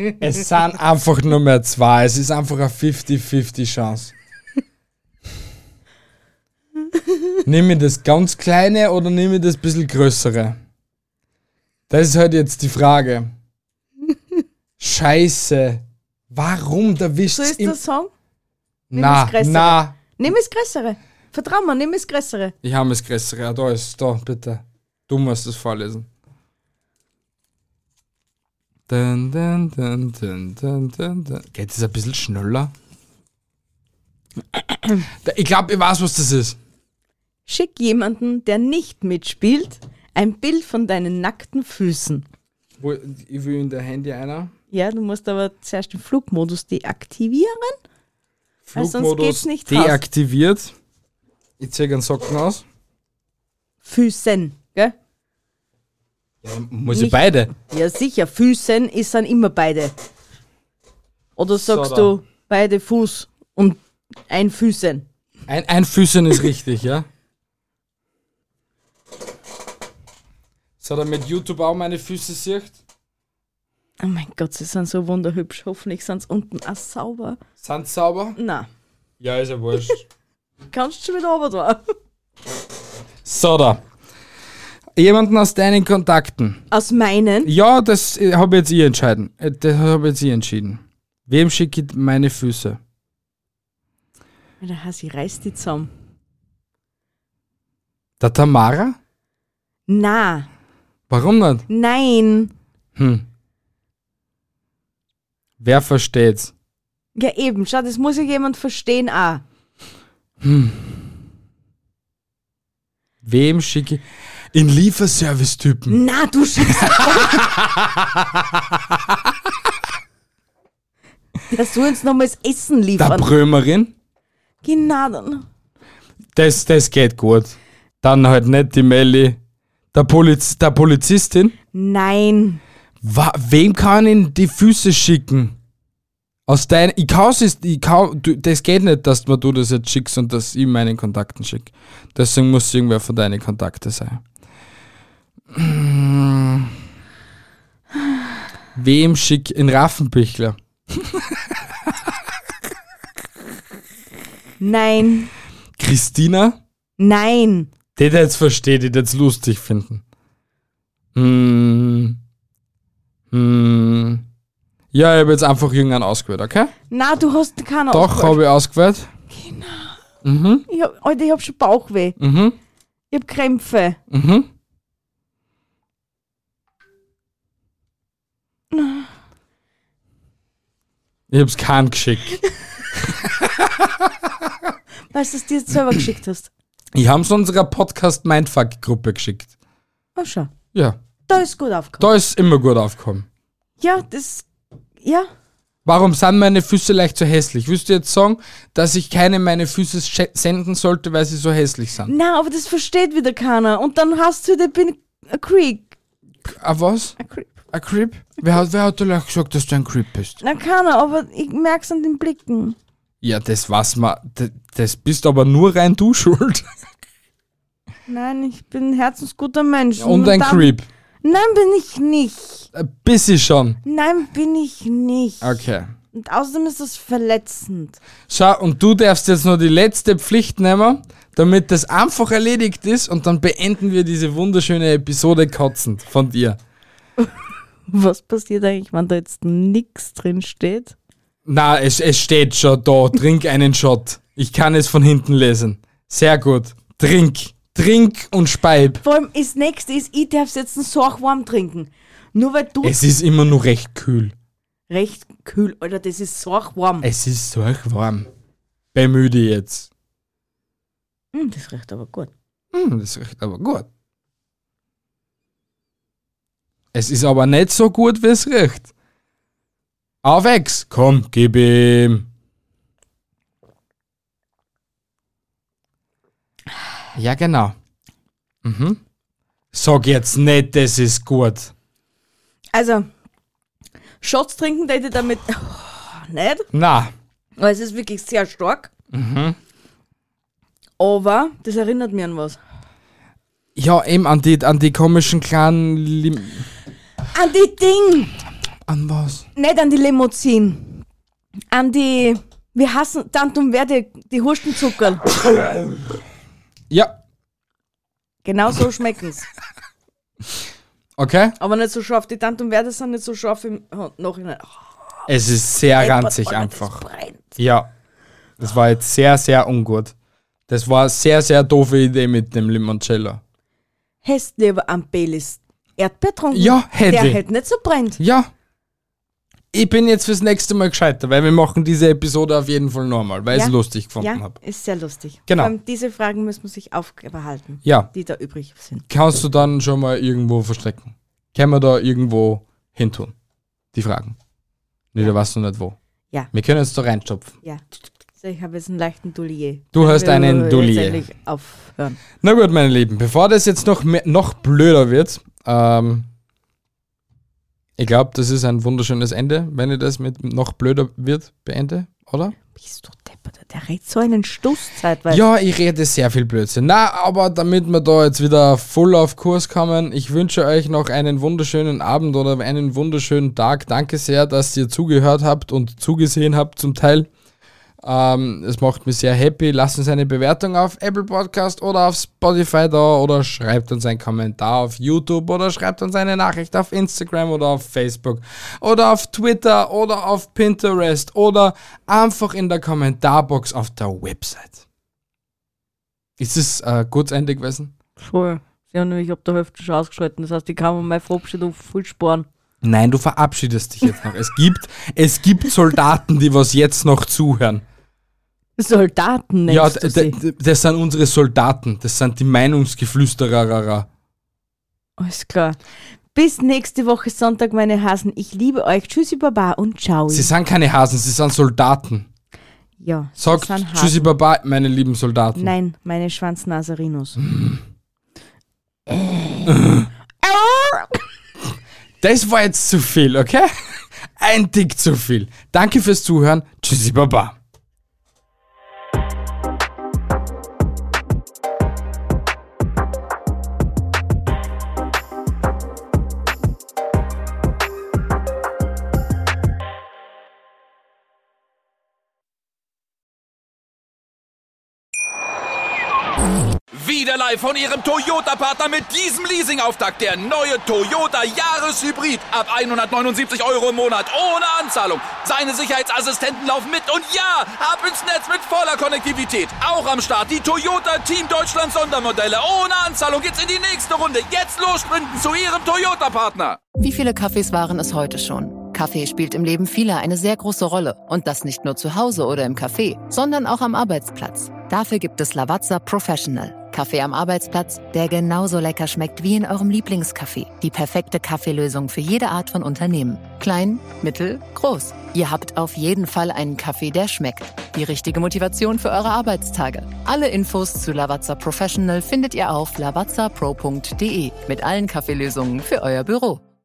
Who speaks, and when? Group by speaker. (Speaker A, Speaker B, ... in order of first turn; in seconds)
Speaker A: 0.2-4.1, 7.5-10.6, 11.9-13.3, 14.8-17.8, 18.9-20.0, 22.6-26.1, 28.9-32.7, 35.2-36.6, 42.8-44.5, 48.7-50.7, 51.6-52.6, 56.4-57.5, 61.6-62.1, 65.5-67.1, 70.8-72.8, 77.6-78.4, 79.2-80.0, 83.2-83.8, 85.0-86.7, 87.5-92.8, 98.2-99.0, 101.1-101.7, 103.0-103.2, 105.6-106.5, 110.4-111.1, 113.2-116.0, 116.6-119.5, 123.0-123.9, 126.3-129.4, 129.9-131.6, 133.0-135.6, 136.5-144.2, 145.5-146.8, 148.8-152.0, 155.8-156.6, 158.0-160.0, 161.2-162.2, 163.3-164.2, 164.9-166.7, 167.9-169.1, 170.2-170.7, 172.2-172.6, 174.1-174.5, 181.3-182.4, 182.9-184.5, 186.9-189.5, 190.7-191.0, 192.0-193.3, 195.8-202.1, 206.5-207.2, 207.7-210.4, 213.2-216.7, 220.0-220.9, 222.7-223.8, 225.4-225.9, 228.3-236.6, 241.5-249.0, 252.8-254.3, 257.0-258.3, 258.9-259.9, 262.7-263.9, 266.9-268.9, 270.2-272.3, 277.1-277.8, 278.6-279.0, 279.7-281.7, 286.7-287.1, 289.1-289.6, 293.8-296.7, 298.9-299.5, 305.3-306.1, 306.9-307.2, 311.2-311.6, 315.3-317.1, 317.6-317.9, 318.6-320.1, 320.7-323.4, 326.5-327.4, 328.2-328.5, 329.7-334.6, 337.8-338.1, 339.1-343.4, 343.9-344.4, 345.1-346.0, 346.5-347.6, 349.9-351.2, 352.4-356.3, 358.0-362.6, 365.3-377.3, 378.0-394.8, 396.4-397.9, 402.8-407.8, 409.7-414.1, 420.3-422.3, 423.4-425.7, 427.4-427.8, 429.7-430.1, 432.2-437.6
Speaker B: 17.3-18.1, 18.9-22.6, 37.5-42.3, 44.7-47.8, 48.7-50.0, 53.8-55.0, 56.9-59.9, 61.4-65.1, 74.0-77.4, 78.4-78.7, 80.7-81.8, 86.7-87.5, 94.6-95.9, 99.9-100.5, 101.7-102.5, 107.2-109.4, 115.9-117.5, 121.5-123.3, 124.6-125.5, 131.7-132.6, 154.6-155.3, 157.0-157.7, 166.9-168.4, 169.3-170.0, 170.7-172.2, 173.1-174.0, 178.7-179.1, 185.1-186.5, 190.2-190.5, 191.3-192.1, 193.8-194.5, 195.0-195.3, 202.1-206.0, 207.2-207.5, 210.4-212.8, 218.1-222.7, 223.8-225.6, 226.1-228.0, 237.9-240.9, 249.0-253.0, 254.9-257.1, 261.3-262.3, 282.7-283.1, 284.2-286.7, 287.6-288.9, 291.0-292.6, 297.3-298.4, 299.6-301.0, 301.7-305.3, 308.4-309.5, 311.6-314.9, 316.0-317.6, 324.2-328.2, 333.5-339.1, 348.4-352.2, 362.7-365.4, 398.2-402.5, 408.8-410.4, 415.2-415.8, 416.3-420.5, 423.0-424.3, 425.6-427.4, 429.1-429.8, 430.4-431.2
Speaker C: 456.9-476.8
Speaker D: 477.0-506.6